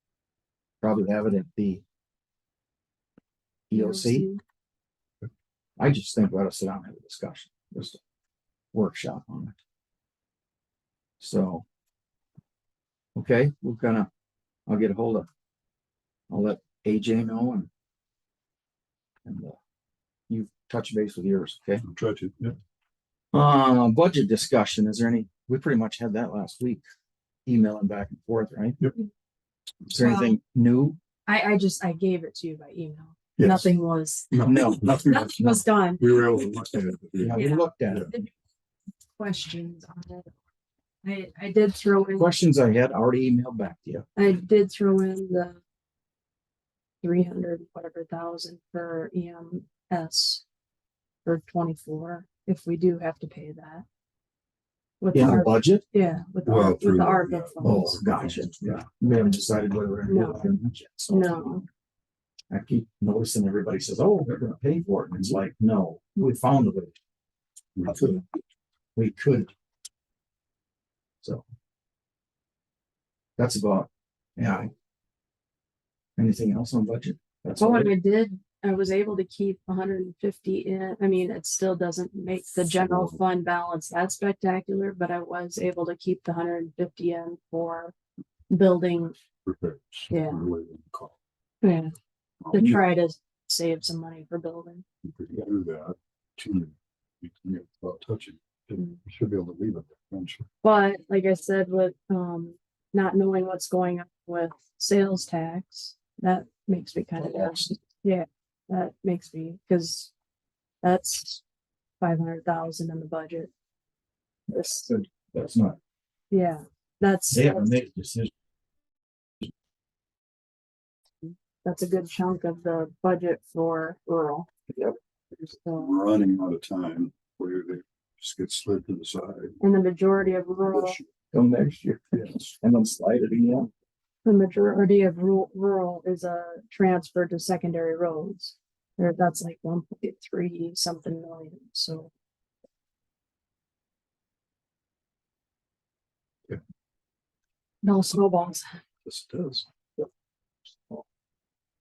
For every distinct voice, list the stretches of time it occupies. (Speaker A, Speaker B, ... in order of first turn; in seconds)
Speaker A: 0.8-1.8, 3.7-4.3, 5.8-8.0, 8.7-9.6, 11.2-11.6, 13.2-14.1, 14.7-15.3, 16.3-17.7, 19.2-19.6, 20.3-21.8, 23.3-26.8, 27.5-28.8, 29.9-31.0, 34.4-34.9, 37.2-38.1, 42.1-44.1, 55.1-55.8, 57.6-61.6, 62.5-66.9, 69.0-69.5, 73.4-74.7, 76.2-77.9, 107.2-107.7, 114.6-115.8, 117.3-118.3, 124.7-125.0, 131.3-133.7
Speaker B: 3.7-4.4, 30.0-30.4, 31.3-34.3, 35.0-36.1, 37.3-38.3, 39.2-40.3, 41.0-42.3, 44.2-45.6, 47.0-50.4, 51.2-53.9, 55.0-58.0, 60.1-60.5, 61.1-61.6, 77.6-87.9, 88.5-89.2, 90.1-90.4, 91.6-91.9, 92.5-94.8, 100.6-110.1, 110.8-111.4, 112.0-113.5, 114.5-115.0, 116.3-117.8, 121.6-124.5, 125.3-125.9, 129.6-131.0, 134.2-142.1, 147.8-148.7
Speaker C: 21.8-22.6, 33.4-33.7, 34.3-38.1, 56.5-58.9, 67.8-68.2, 82.8-83.2, 89.5-91.2, 92.5-92.8, 95.0-100.5, 125.8-129.6, 130.7-131.1, 132.2-132.5, 149.1-149.7